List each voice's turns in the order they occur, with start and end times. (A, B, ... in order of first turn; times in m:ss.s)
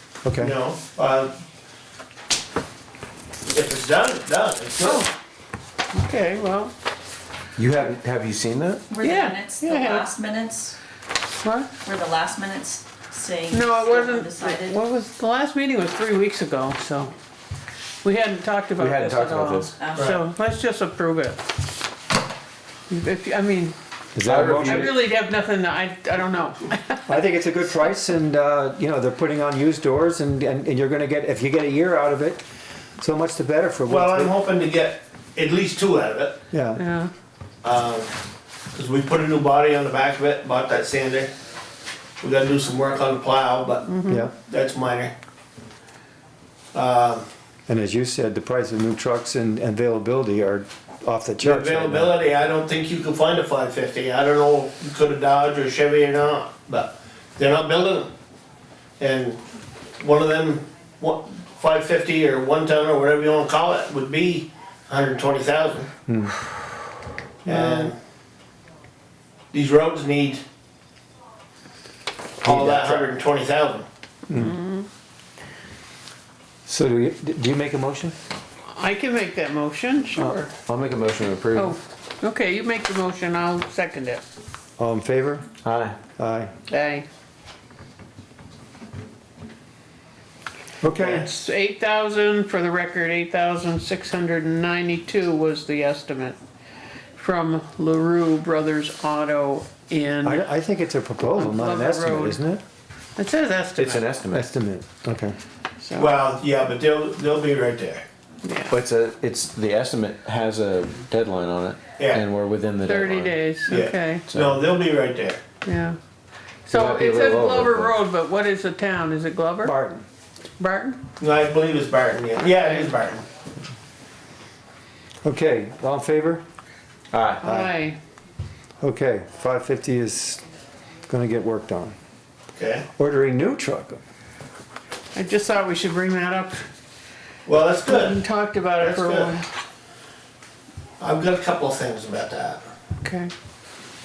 0:00.2-0:00.6 A
0:00.4-0:01.3 B
0:03.5-0:05.1 B
0:04.8-0:05.1 C
0:05.9-0:06.7 C
0:07.6-0:08.8 D
0:08.9-0:10.8 E
0:09.0-0:10.1 C
0:11.4-0:11.7 C
0:11.8-0:14.8 E
0:13.5-0:17.1 C
0:18.0-0:21.4 C
0:18.8-0:19.7 D
0:19.9-0:20.2 B
0:22.9-0:23.8 C
0:24.2-0:24.9 A
0:24.3-0:25.0 D
0:24.4-0:27.1 C
0:27.1-0:32.4 A
0:33.0-0:34.4 A
0:33.9-0:36.4 B
0:36.5-0:36.8 A
0:36.8-0:37.1 C
0:37.6-0:38.1 B
0:38.7-0:41.3 B
0:42.2-0:45.1 B
0:43.8-0:44.3 C
0:44.1-0:44.3 A
0:46.7-0:47.2 B
0:47.7-0:52.1 A
0:51.4-0:58.1 B
0:59.0-0:59.4 B
1:00.0-1:05.9 B
1:06.1-1:06.4 A
1:07.4-1:08.0 B
1:07.5-1:07.9 C
1:09.5-1:10.4 B
1:12.4-1:13.9 B
1:12.4-1:13.1 A
1:14.3-1:14.6 A
1:14.3-1:14.9 C
1:16.7-1:18.2 A
1:18.7-1:20.5 C
1:20.7-1:21.8 D
1:21.5-1:24.2 C
1:24.8-1:25.5 A
1:25.6-1:26.0 D
1:26.1-1:26.5 A
1:26.7-1:27.1 C
1:30.8-1:31.3 A
1:31.0-1:36.4 C
1:37.2-1:40.5 C
1:40.2-1:42.6 A
1:41.2-1:42.4 C
1:43.2-1:44.0 C
1:43.8-1:44.5 D
1:44.3-1:45.4 A
1:45.8-1:46.1 C
1:46.0-1:48.0 B
1:48.4-1:48.8 C
1:48.7-1:53.5 D
1:52.0-1:52.2 B
1:52.8-1:54.3 C
1:53.7-1:55.4 B
1:54.3-1:54.6 D
1:55.6-1:56.0 C
1:56.7-1:59.7 C
1:56.7-1:58.0 D
1:59.6-2:00.1 A
2:00.6-2:01.0 C
2:01.2-2:03.2 B
2:05.2-2:06.4 A
2:07.1-2:07.4 D
2:07.4-2:07.7 A
2:07.4-2:08.0 C
2:08.8-2:10.4 A
2:11.1-2:12.0 A
2:12.6-2:12.9 B
2:13.0-2:14.0 A
2:15.1-2:16.6 C
2:17.5-2:18.2 B
2:17.8-2:19.5 C
2:18.8-2:19.4 B
2:21.0-2:22.7 B
2:23.0-2:23.3 C